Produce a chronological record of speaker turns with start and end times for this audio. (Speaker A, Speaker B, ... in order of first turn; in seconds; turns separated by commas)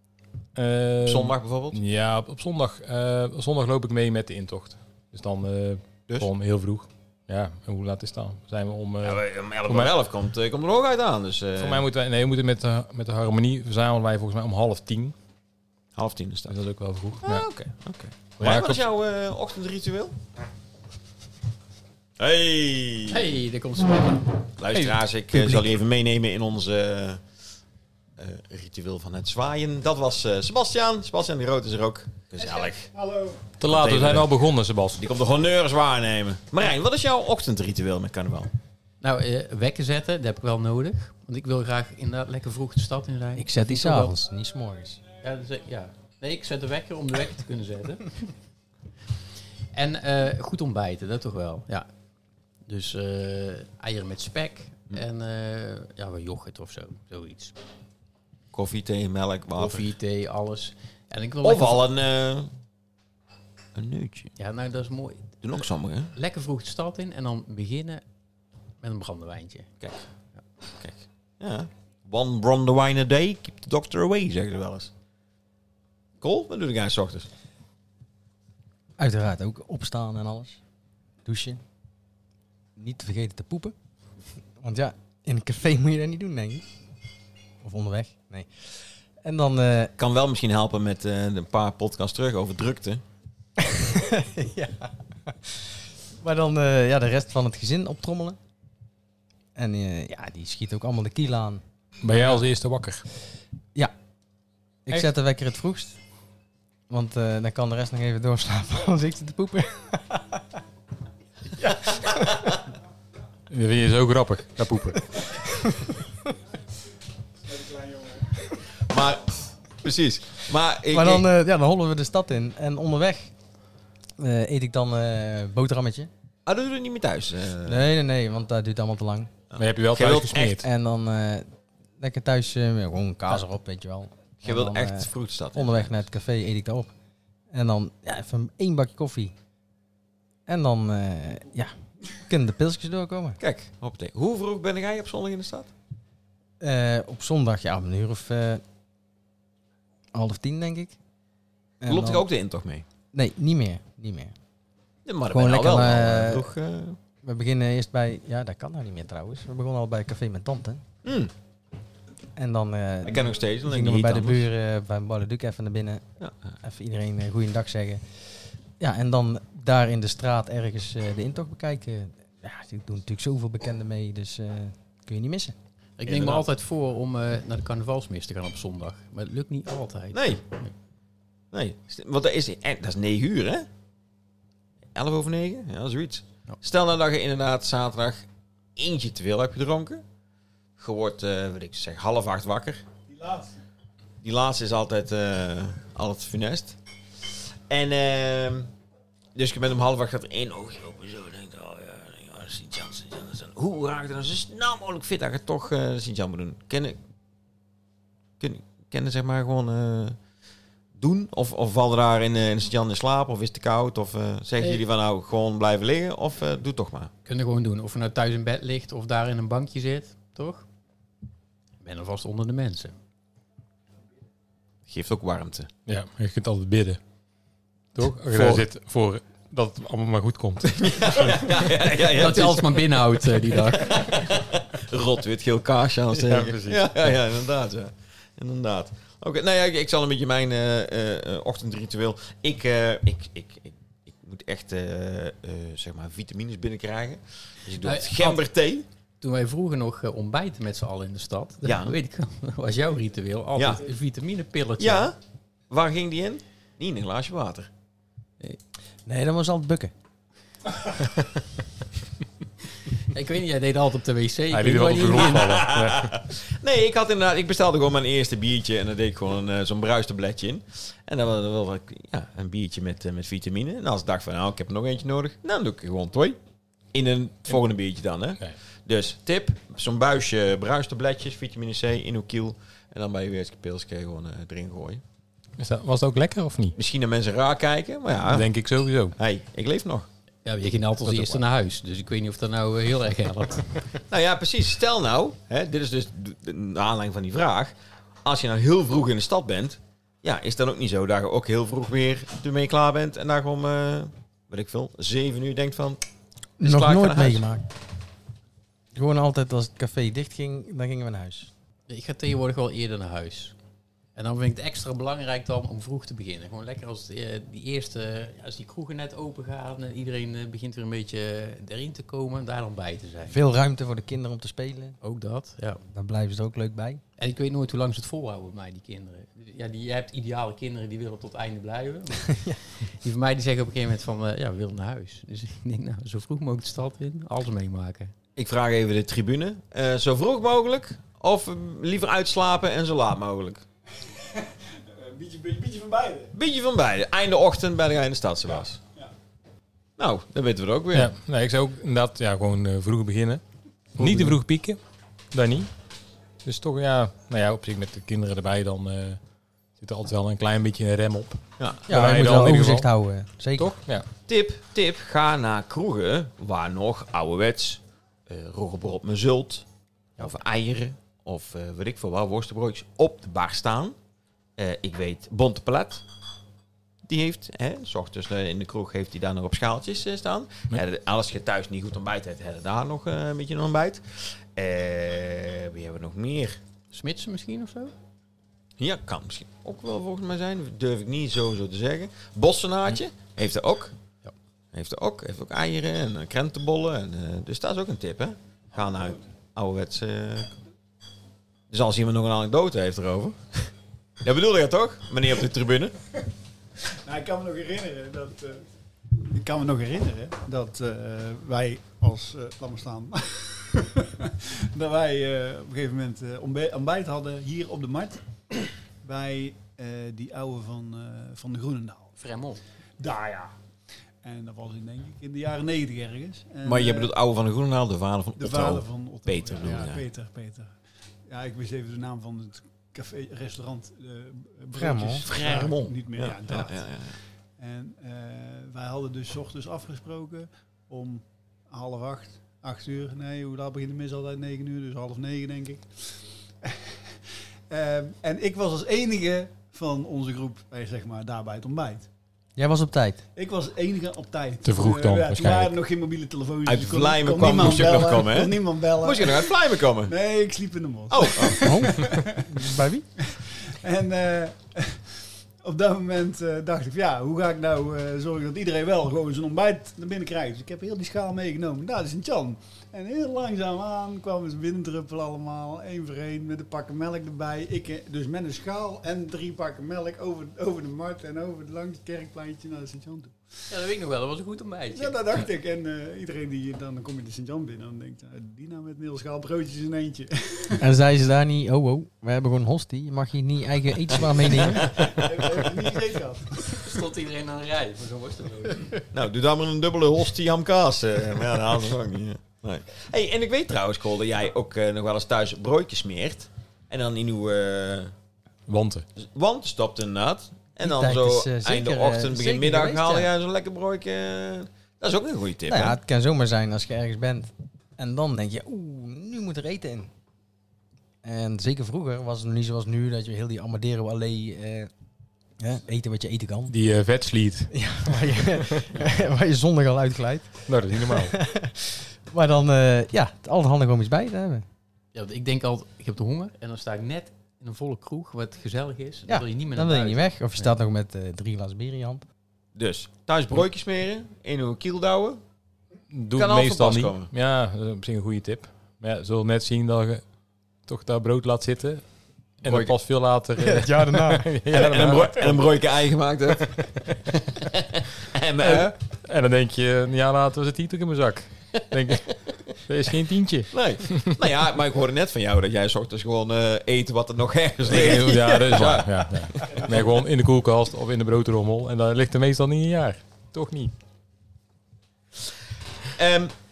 Speaker A: 0.6-9.9, Speaker B: 1.0-1.8, Speaker B: 9.0-11.8, Speaker A: 11.6-15.2, Speaker B: 16.0-16.6, Speaker A: 16.5-17.5, Speaker B: 17.2-20.2, Speaker A: 18.4-18.8, Speaker B: 22.2-23.3, Speaker C: 23.1-24.3, Speaker B: 24.6-27.2, Speaker A: 24.7-25.6, Speaker B: 28.2-32.9, Speaker D: 32.4-33.5, Speaker A: 33.6-35.0, Speaker B: 33.6-34.3, Speaker B: 35.0-38.5, Speaker C: 39.0-44.1, Speaker E: 43.4-45.0, Speaker C: 45.2-48.3, Speaker C: 49.7-51.9, Speaker C: 52.7-57.6, Speaker B: 58.5-59.9, Speaker C: 59.6-61.9, Speaker B: 61.4-62.5, Speaker B: 63.8-64.3, Speaker C: 64.4-65.3, Speaker B: 65.4-66.1, Speaker C: 66.2-68.0, Speaker C: 68.8-69.7, Speaker B: 70.8-74.9, Speaker B: 76.2-77.3, Speaker E: 79.0-80.6, Speaker E: 81.2-81.6, Speaker E: 82.8-83.7, Speaker E: 84.6-86.7, Speaker E: 87.6-89.9, Speaker B: 90.0-93.0, Speaker E: 93.6-98.4, Speaker E: 99.6-101.6, Speaker A: 102.0-103.0, Speaker E: 104.9-106.0, Speaker E: 106.9-110.4, Speaker E: 111.6-112.4, Speaker B: 111.9-112.5, Speaker A: 113.5-115.0, Speaker E: 115.5-116.0, Speaker D: 117.5-118.3, Speaker B: 118.9-121.3, Speaker E: 120.9-123.3, Speaker E: 124.2-126.1, Speaker B: 126.5-127.9, Speaker E: 127.7-129.3, Speaker B: 129.5-130.6, Speaker A: 129.6-130.7, Speaker E: 130.6-131.5, Speaker E: 132.0-136.9, Speaker B: 134.4-136.0, Speaker E: 137.5-139.3, Speaker E: 140.5-143.4, Speaker B: 143.4-145.7, Speaker E: 146.6-148.6, Speaker E: 150.1-151.0, Speaker E: 151.8-152.3, Speaker B: 151.9-152.8, Speaker E: 153.1-154.3, Speaker B: 155.1-157.0, Speaker E: 155.3-156.5, Speaker E: 157.2-160.8, Speaker B: 161.0-161.3, Speaker E: 162.4-166.0, Speaker B: 163.1-164.5, Speaker E: 166.6-168.0, Speaker E: 168.8-175.6, Speaker C: 176.0-180.7, Speaker B: 176.1-176.4, Speaker B: 180.1-180.4, Speaker B: 181.5-183.7, Speaker B: 184.9-188.2, Speaker B: 188.8-190.0, Speaker B: 190.8-192.8, Speaker D: 193.1-193.5, Speaker B: 194.2-196.8, Speaker B: 197.7-198.7, Speaker B: 199.4-207.0, Speaker B: 208.4-210.2, Speaker B: 211.0-217.1, Speaker C: 217.2-220.7, Speaker C: 221.8-223.0, Speaker B: 224.9-225.7, Speaker A: 225.9-227.0, Speaker A: 227.9-231.5, Speaker B: 228.3-228.6, Speaker B: 230.7-232.9, Speaker C: 232.1-234.2, Speaker B: 233.7-248.8, Speaker A: 236.1-237.1, Speaker C: 247.8-248.4, Speaker C: 249.2-255.1, Speaker B: 251.7-252.0, Speaker B: 253.6-253.8, Speaker B: 254.8-255.2, Speaker B: 255.7-257.7, Speaker E: 259.1-259.9, Speaker C: 263.0-265.6, Speaker A: 264.5-266.1, Speaker B: 265.2-276.4, Speaker B: 276.9-285.0, Speaker A: 285.6-286.8, Speaker B: 286.8-288.5, Speaker A: 288.3-289.2, Speaker B: 289.2-290.1, Speaker C: 290.4-293.8, Speaker A: 291.1-291.4, Speaker B: 294.1-297.7, Speaker B: 298.2-306.0, Speaker B: 306.6-307.4, Speaker E: 306.6-307.6, Speaker E: 308.9-311.5, Speaker C: 311.9-313.6, Speaker C: 314.2-323.4, Speaker E: 323.3-325.0, Speaker C: 325.0-325.8, Speaker E: 325.9-327.0, Speaker C: 327.2-338.1, Speaker E: 332.3-332.6, Speaker B: 338.4-343.6, Speaker D: 344.0-346.3, Speaker B: 346.3-348.8, Speaker B: 350.0-351.1, Speaker A: 350.9-353.4, Speaker A: 354.0-354.8, Speaker A: 355.3-355.7, Speaker A: 356.4-359.2, Speaker A: 359.8-362.9, Speaker E: 361.9-363.7, Speaker A: 363.6-364.1, Speaker B: 364.3-369.7, Speaker B: 370.2-373.9, Speaker B: 374.6-376.0, Speaker B: 377.1-386.6, Speaker C: 386.9-387.9, Speaker B: 388.8-393.9, Speaker B: 394.7-400.5, Speaker B: 401.7-403.7, Speaker B: 404.2-405.9, Speaker D: 407.0-408.6, Speaker D: 409.2-422.1, Speaker C: 422.2-422.6, Speaker D: 423.0-423.5, Speaker D: 424.2-427.1, Speaker B: 426.6-430.1, Speaker D: 428.4-430.7, Speaker D: 431.3-436.9, Speaker E: 434.8-435.2, Speaker B: 435.2-437.2, Speaker D: 437.6-447.1, Speaker D: 447.7-452.1, Speaker E: 452.6-453.2, Speaker D: 453.4-459.6, Speaker A: 454.6-455.7, Speaker B: 456.7-460.1, Speaker D: 460.1-462.6, Speaker B: 461.1-461.9, Speaker E: 461.6-463.1, Speaker D: 463.2-483.4, Speaker C: 483.7-485.1, Speaker D: 484.9-490.8, Speaker E: 490.8-495.1, Speaker D: 494.7-496.9, Speaker C: 496.7-499.0, Speaker B: 499.1-508.1, Speaker A: 508.7-509.1, Speaker B: 509.2-516.0, Speaker E: 510.8-513.3, Speaker E: 515.7-520.1, Speaker E: 521.2-524.9, Speaker E: 525.6-526.7, Speaker A: 526.7-527.7, Speaker E: 527.7-534.6, Speaker A: 530.7-531.4, Speaker C: 535.1-540.7, Speaker E: 539.3-542.2, Speaker B: 542.8-545.4, Speaker A: 546.1-550.2, Speaker B: 546.4-547.3, Speaker A: 550.9-552.0, Speaker A: 552.6-555.6, Speaker B: 552.6-552.9, Speaker E: 553.6-554.6, Speaker B: 554.7-556.9, Speaker A: 556.6-557.7, Speaker B: 558.0-559.0, Speaker A: 558.6-564.4, Speaker B: 563.7-570.0, Speaker A: 567.9-573.9, Speaker B: 576.1-576.5